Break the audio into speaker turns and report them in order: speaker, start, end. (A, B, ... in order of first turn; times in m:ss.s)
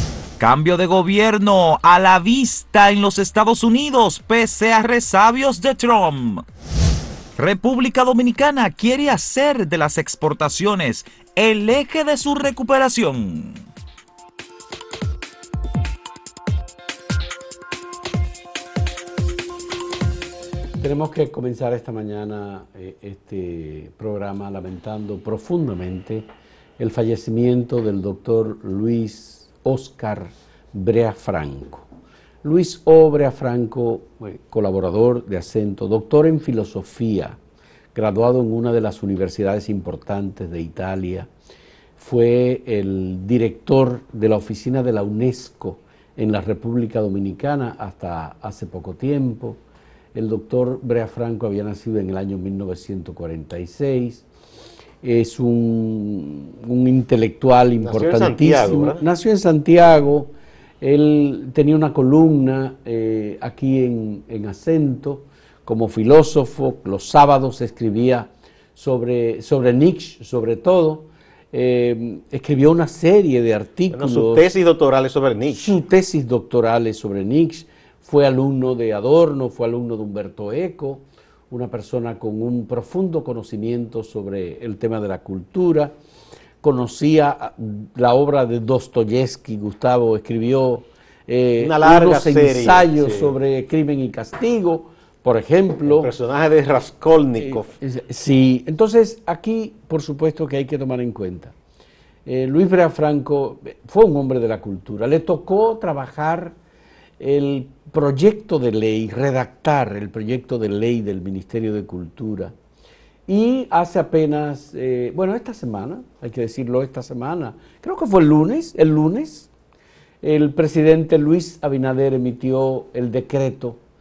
0:00.4-0:06.4 A
0:07.4-0:13.6 A
0:20.8-0:26.2 B
0:26.8-0:31.9 B
0:32.4-0:37.4 B
0:37.9-0:41.3 B
0:42.0-0:49.6 B
0:50.1-0:54.2 B
0:55.0-1:14.4 B
0:57.8-0:59.0 C
1:13.9-1:15.6 C
1:15.5-1:25.9 B
1:26.6-1:36.1 B
1:31.6-1:33.3 C
1:35.9-1:37.7 C
1:37.4-1:41.5 B
1:42.2-1:46.5 B
1:47.2-1:52.5 B
1:53.3-1:59.5 B
2:00.2-2:03.8 B